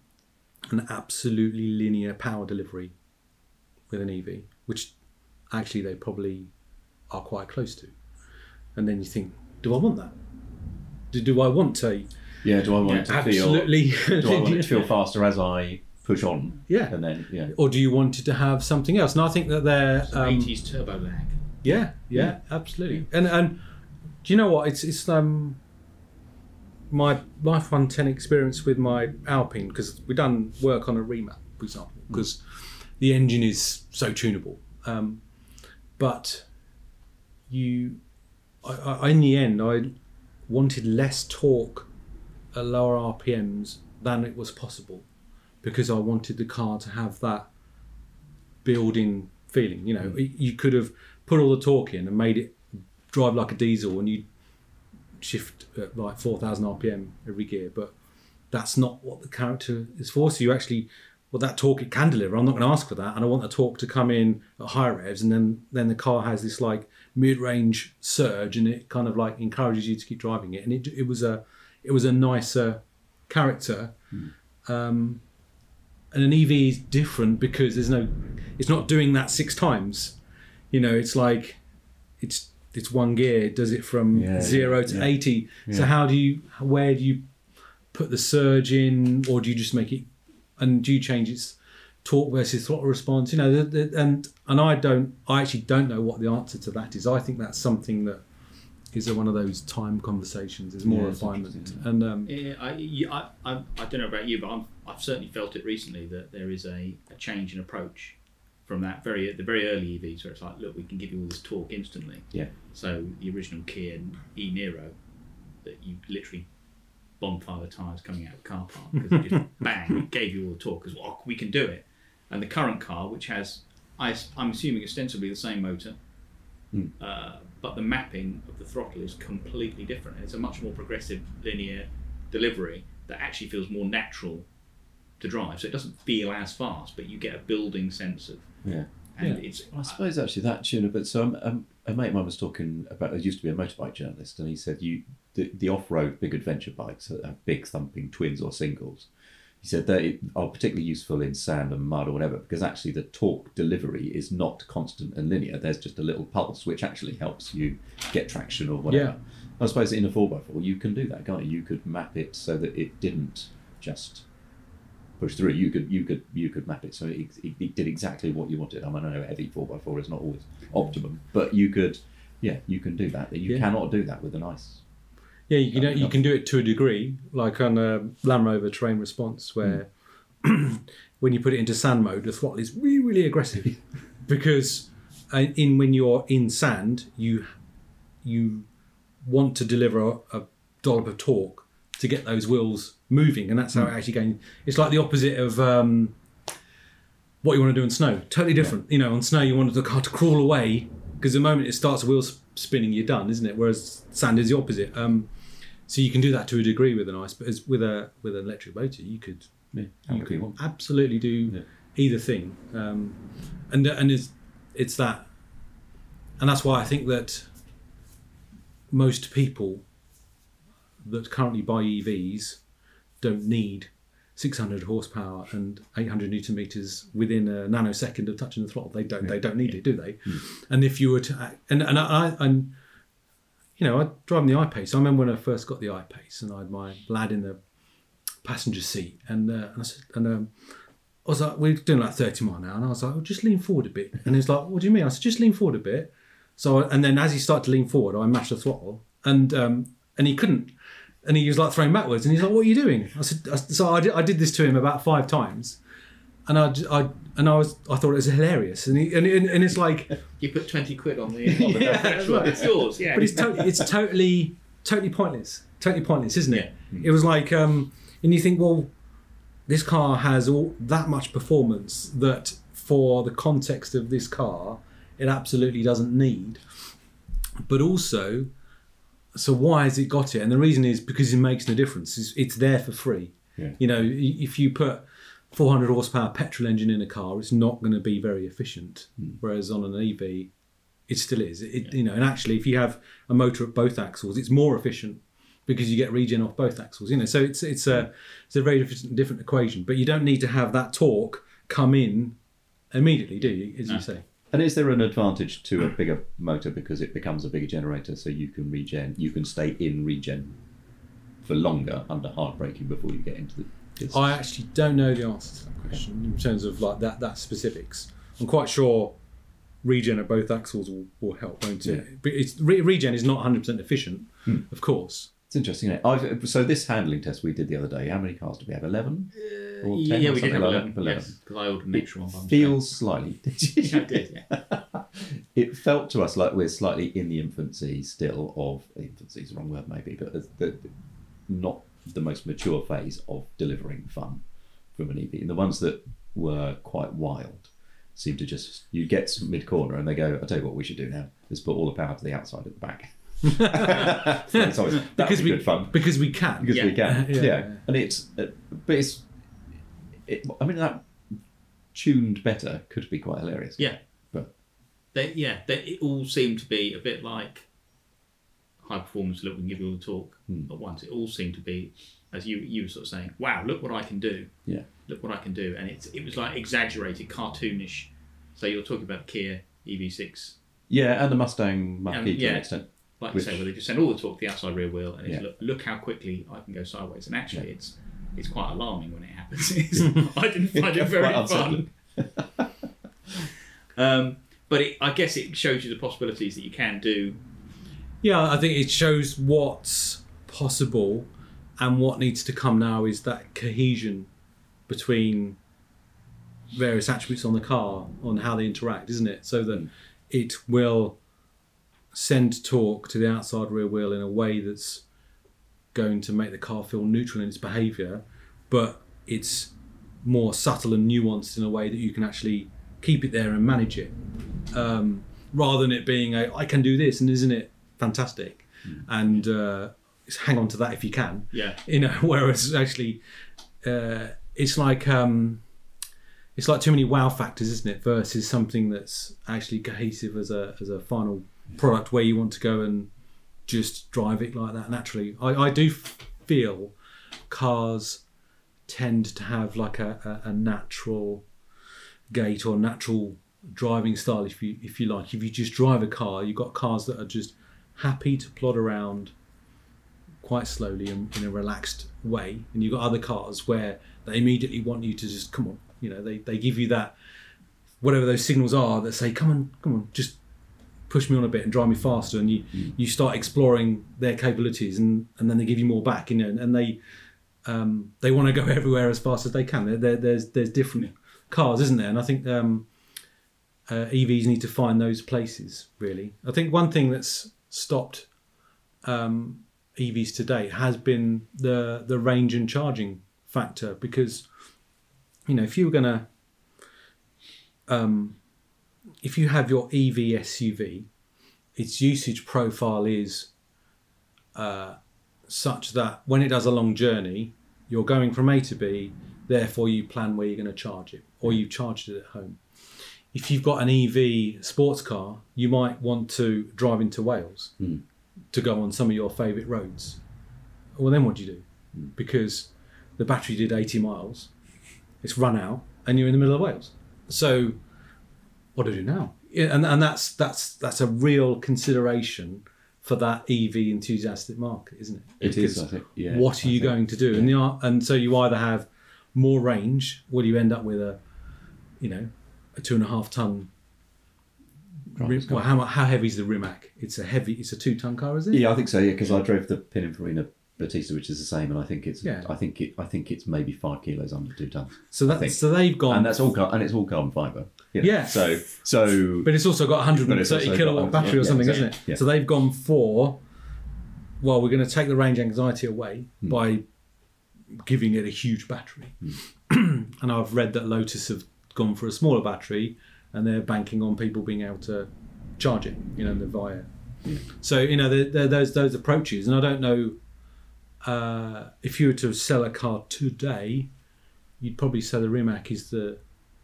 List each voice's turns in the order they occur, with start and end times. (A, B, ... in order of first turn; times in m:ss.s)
0:00.7-0:02.9 A
0:03.9-0:04.9 A
0:05.5-0:06.5 A
0:07.1-0:08.0 A
0:08.7-0:10.1 A
0:11.1-0:12.1 A
0:12.4-0:17.5 B
0:12.8-0:13.1 C
0:12.8-0:14.8 A
0:16.7-0:20.5 A
0:20.1-0:21.4 C
0:21.6-0:23.6 A
0:24.2-0:25.6 A
0:26.9-0:35.2 A
0:36.0-0:36.5 A
0:37.5-0:38.0 A
0:38.6-0:39.9 A
0:40.5-0:41.9 A
0:42.5-0:45.1 A
0:45.6-0:47.5 A
0:48.6-0:54.3 A
0:55.2-0:57.9 A
0:58.5-1:14.0 A
1:14.6-1:15.2 A
1:16.1-1:20.2 A
1:20.7-1:21.6 A
1:22.2-1:38.2 A
1:24.1-1:25.9 B
1:38.9-1:42.3 A
1:40.8-1:41.9 B
1:42.2-1:55.0 C
1:55.5-2:06.0 C
2:07.0-2:14.5 C
2:15.1-2:20.0 C
2:18.6-2:44.3 B
2:38.9-2:39.1 A
2:45.2-2:54.8 B
2:55.5-3:07.5 A
2:55.7-2:56.1 B
3:08.2-3:08.7 A
3:09.2-3:16.2 A
3:17.4-3:25.3 A
3:25.9-3:35.6 A
3:29.7-3:30.9 B
3:36.4-3:37.6 A
3:38.9-3:39.9 A
3:41.0-3:42.7 A
3:43.2-3:52.8 A
3:53.8-3:57.6 A
3:58.4-4:15.8 A
4:16.5-4:20.2 A
4:20.4-4:23.5 C
4:21.5-4:23.6 B
4:21.5-4:28.9 A
4:29.7-4:36.9 A
4:37.6-4:38.5 A
4:39.3-4:50.5 A
4:51.1-5:02.4 A
5:02.9-5:04.2 A
5:04.5-5:10.6 B
5:11.4-5:14.4 B
5:14.0-5:19.2 A
5:19.8-5:25.3 A
5:25.5-5:31.4 B
5:29.3-5:33.0 C
5:31.9-5:59.3 B
5:33.8-5:34.5 C
5:53.5-5:57.8 A
5:56.7-5:57.0 C
6:00.2-6:04.5 B
6:03.8-6:04.6 C
6:05.1-6:07.7 C
6:08.8-6:20.6 C
6:20.9-6:23.6 B
6:22.1-6:31.9 C
6:29.9-6:30.2 B
6:30.7-6:32.7 B
6:33.9-6:37.4 C
6:38.2-6:44.3 A
6:44.9-6:45.6 A
6:46.7-6:51.2 A
6:52.1-6:55.0 A
6:55.9-7:04.2 A
7:04.7-7:13.2 A
7:11.5-7:11.8 C
7:13.8-7:15.6 A
7:16.6-7:23.1 A
7:23.6-7:26.9 A
7:27.5-7:28.2 A
7:28.9-7:31.5 A
7:32.3-7:39.3 A
7:40.4-7:47.2 A
7:48.0-7:50.4 A
7:51.1-7:57.0 A
7:57.6-8:02.9 A
8:03.9-8:08.4 A
8:09.0-8:14.5 A
8:15.4-8:16.3 A
8:17.9-8:18.4 A
8:19.2-8:21.1 A
8:21.7-8:23.5 A
8:24.5-8:37.8 A
8:38.5-8:40.2 A
8:41.0-8:44.5 A
8:45.2-8:47.8 A
8:48.7-9:01.2 A
8:55.4-8:57.5 B
9:02.0-9:03.7 A
9:05.1-9:08.7 A
9:05.2-9:05.7 B
9:08.5-9:22.2 B
9:12.2-9:12.5 A
9:15.1-9:16.3 A
9:18.0-9:18.9 A
9:19.4-9:23.4 A
9:24.4-9:40.2 A
9:41.0-9:43.9 A
9:44.6-9:46.2 A